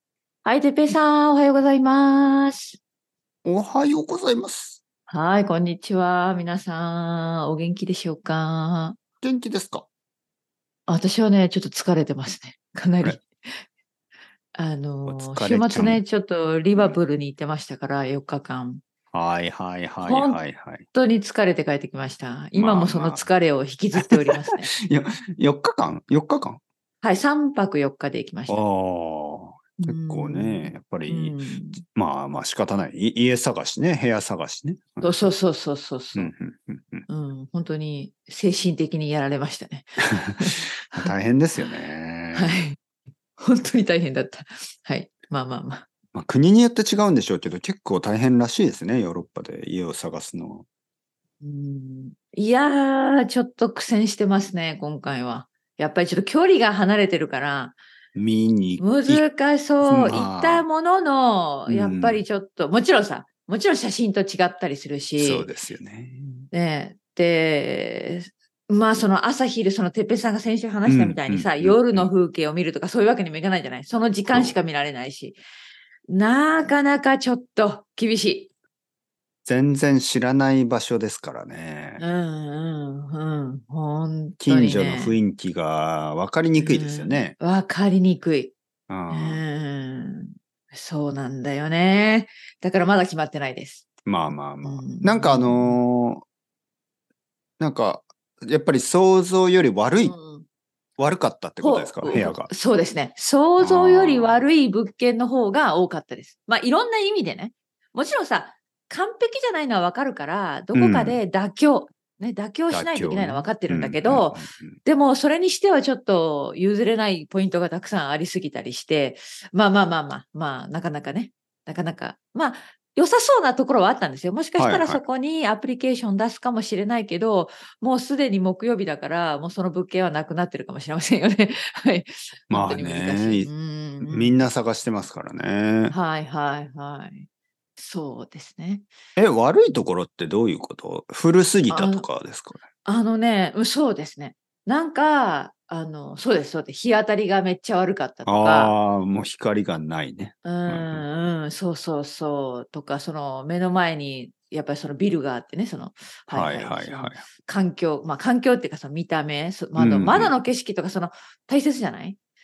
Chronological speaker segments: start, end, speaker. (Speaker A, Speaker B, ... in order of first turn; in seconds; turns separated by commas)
Speaker A: 0.4-2.8, Speaker B: 3.4-4.8, Speaker A: 5.1-9.0, Speaker B: 9.2-9.9, Speaker A: 10.9-13.6, Speaker A: 14.5-18.8, Speaker B: 15.1-16.0, Speaker B: 19.1-20.9, Speaker A: 20.0-20.4, Speaker A: 20.9-24.7, Speaker B: 22.5-23.3, Speaker B: 24.0-26.6, Speaker A: 27.0-28.6, Speaker B: 28.5-35.3, Speaker A: 29.8-31.8, Speaker A: 35.0-36.3, Speaker B: 36.1-37.1, Speaker A: 37.1-41.7, Speaker B: 40.2-42.6, Speaker A: 42.3-42.8, Speaker A: 43.4-45.9, Speaker B: 46.1-50.7, Speaker A: 51.4-57.8, Speaker B: 58.1-59.2, Speaker A: 58.8-65.5, Speaker B: 59.8-60.7, Speaker B: 61.7-62.2, Speaker B: 65.2-66.5, Speaker A: 66.5-75.4, Speaker B: 70.9-72.1, Speaker B: 74.3-74.6, Speaker A: 76.1-78.5, Speaker B: 79.5-82.0, Speaker A: 82.0-85.2, Speaker B: 84.4-87.3, Speaker A: 86.6-88.5, Speaker B: 88.9-89.4, Speaker A: 89.1-93.9, Speaker B: 94.1-96.2, Speaker A: 94.6-95.8, Speaker B: 97.6-100.1, Speaker A: 100.0-100.5, Speaker B: 101.0-102.5, Speaker A: 101.6-134.5, Speaker B: 103.6-104.5, Speaker B: 110.7-111.2, Speaker B: 112.7-114.8, Speaker B: 124.6-125.0, Speaker B: 132.5-133.5, Speaker B: 134.0-136.0, Speaker A: 135.9-138.9, Speaker B: 139.2-142.6, Speaker A: 141.7-142.1, Speaker A: 142.8-148.8, Speaker B: 148.2-151.1, Speaker A: 150.4-162.2, Speaker B: 156.3-157.2, Speaker B: 159.8-160.3